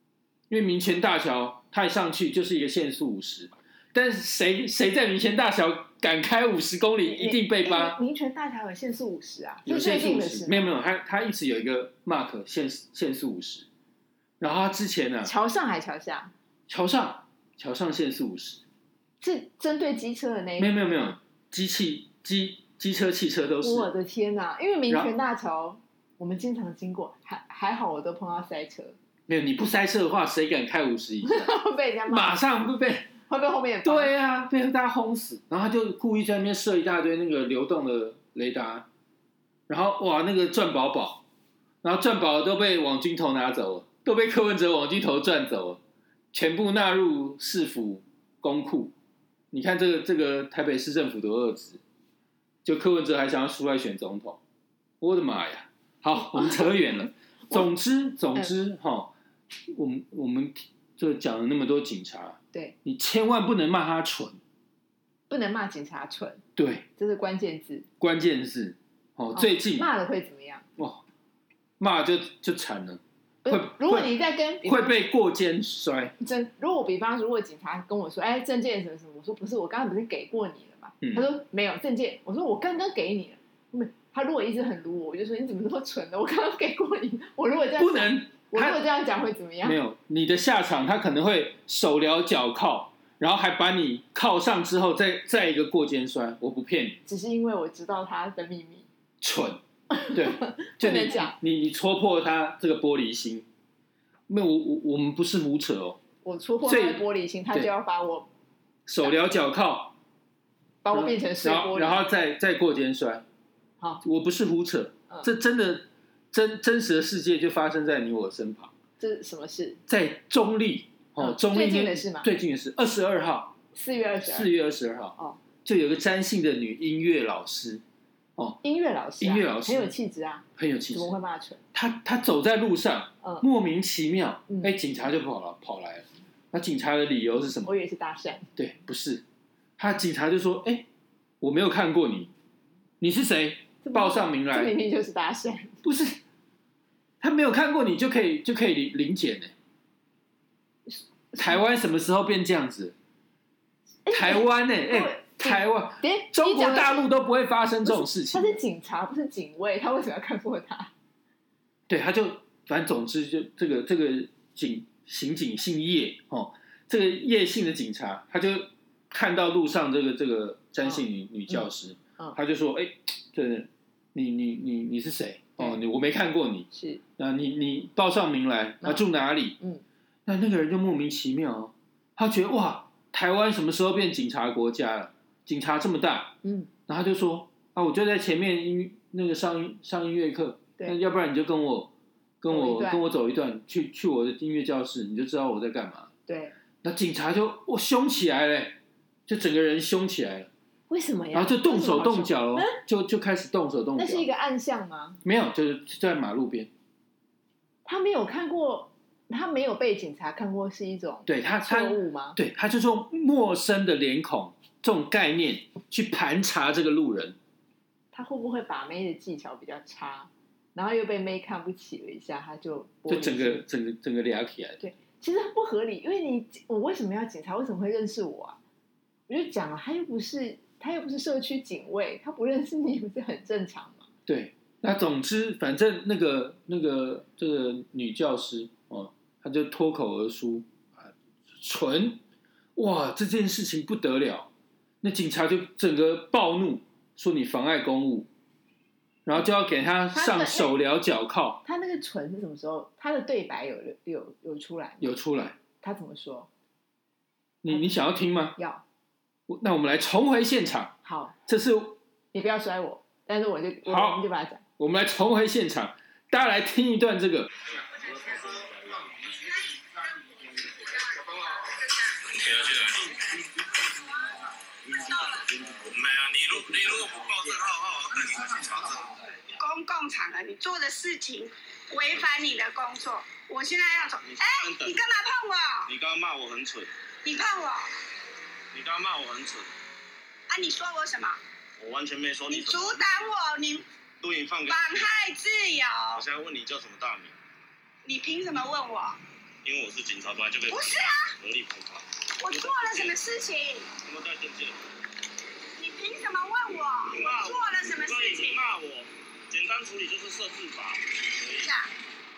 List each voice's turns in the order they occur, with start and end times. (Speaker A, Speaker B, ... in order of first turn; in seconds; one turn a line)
Speaker A: 0.5-8.0
Speaker B: 7.0-10.7
Speaker A: 9.7-13.7
Speaker A: 14.4-15.3
Speaker B: 15.2-16.3
Speaker A: 16.7-18.6
Speaker B: 19.2-21.1
Speaker A: 20.6-23.9
Speaker B: 23.6-28.9
Speaker A: 29.3-31.5
Speaker B: 31.2-32.4
Speaker A: 32.1-33.1
Speaker B: 33.2-34.1
Speaker A: 33.8-38.9
Speaker A: 39.7-41.2
Speaker A: 41.8-45.8
Speaker A: 46.3-48.9
Speaker A: 49.5-51.8
Speaker A: 52.6-54.4
Speaker A: 55.0-59.1
Speaker A: 59.7-64.4
Speaker B: 65.3-66.4
Speaker A: 66.6-66.8
Speaker B: 67.0-67.8
Speaker A: 68.0-69.9
Speaker B: 69.3-70.7
Speaker A: 70.8-71.0
Speaker A: 71.8-76.1
Speaker B: 73.4-74.9
Speaker B: 76.2-89.8
Speaker A: 87.8-88.8
Speaker A: 89.6-97.0
Speaker B: 97.0-98.8
Speaker A: 99.2-99.6
Speaker B: 100.0-101.3
Speaker A: 100.1-103.5
Speaker A: 104.3-106.0
Speaker B: 106.2-108.3
Speaker A: 106.6-107.7
Speaker A: 108.9-109.9
Speaker B: 110.8-112.0
Speaker A: 110.9-113.2
Speaker A: 114.0-118.7
Speaker B: 119.0-119.8
Speaker A: 119.9-123.5
Speaker B: 121.2-122.3
Speaker B: 123.7-124.5
Speaker A: 124.2-127.8
Speaker B: 128.6-131.6
Speaker A: 129.2-129.9
Speaker A: 130.6-131.1
Speaker A: 131.7-137.7
Speaker B: 134.5-134.7
Speaker B: 137.6-138.5
Speaker A: 138.6-139.2
Speaker A: 139.8-140.8
Speaker A: 141.4-142.3
Speaker A: 143.0-144.8
Speaker B: 143.8-145.8
Speaker A: 145.8-146.2
Speaker A: 147.2-149.5
Speaker B: 150.9-151.6
Speaker A: 151.3-152.9
Speaker B: 154.1-157.1
Speaker A: 154.1-158.6
Speaker B: 157.8-160.9
Speaker A: 161.9-179.6
Speaker B: 170.8-171.6
Speaker B: 176.7-177.0
Speaker B: 178.8-179.8
Speaker A: 180.2-186.3
Speaker B: 186.4-186.7
Speaker A: 186.9-196.1
Speaker B: 192.5-193.0
Speaker B: 196.3-196.5
Speaker A: 196.8-200.5
Speaker B: 200.9-202.8
Speaker A: 201.3-204.3
Speaker B: 204.0-205.2
Speaker A: 205.2-206.7
Speaker B: 207.8-212.4
Speaker A: 211.2-217.3
Speaker B: 218.1-223.6
Speaker A: 223.1-224.8
Speaker B: 224.8-228.6
Speaker B: 229.3-234.1
Speaker A: 234.3-242.2
Speaker A: 242.8-244.5
Speaker A: 245.0-248.3
Speaker A: 249.2-251.6
Speaker B: 250.1-250.7
Speaker B: 251.6-255.2
Speaker A: 255.0-255.6
Speaker B: 255.8-256.5
Speaker A: 257.6-258.6
Speaker B: 257.7-258.0
Speaker B: 258.5-258.8
Speaker A: 259.5-260.9
Speaker B: 261.0-261.4
Speaker A: 261.5-262.0
Speaker B: 262.3-264.6
Speaker A: 263.9-264.2
Speaker A: 264.8-267.5
Speaker C: 268.0-269.3
Speaker D: 268.1-268.5
Speaker D: 270.8-272.1
Speaker C: 272.3-273.4
Speaker C: 274.9-279.1
Speaker D: 274.9-275.5
Speaker D: 279.5-285.9
Speaker C: 284.1-285.0
Speaker C: 285.9-286.9
Speaker D: 287.2-287.9
Speaker C: 288.7-289.7
Speaker D: 290.5-291.4
Speaker C: 291.8-293.2
Speaker D: 292.5-293.8
Speaker C: 294.2-295.1
Speaker D: 294.7-296.2
Speaker C: 296.1-297.3
Speaker D: 298.0-299.2
Speaker C: 299.6-303.2
Speaker D: 300.7-301.3
Speaker D: 302.4-303.9
Speaker C: 304.0-304.8
Speaker D: 305.8-308.6
Speaker C: 307.1-311.7
Speaker D: 311.6-311.9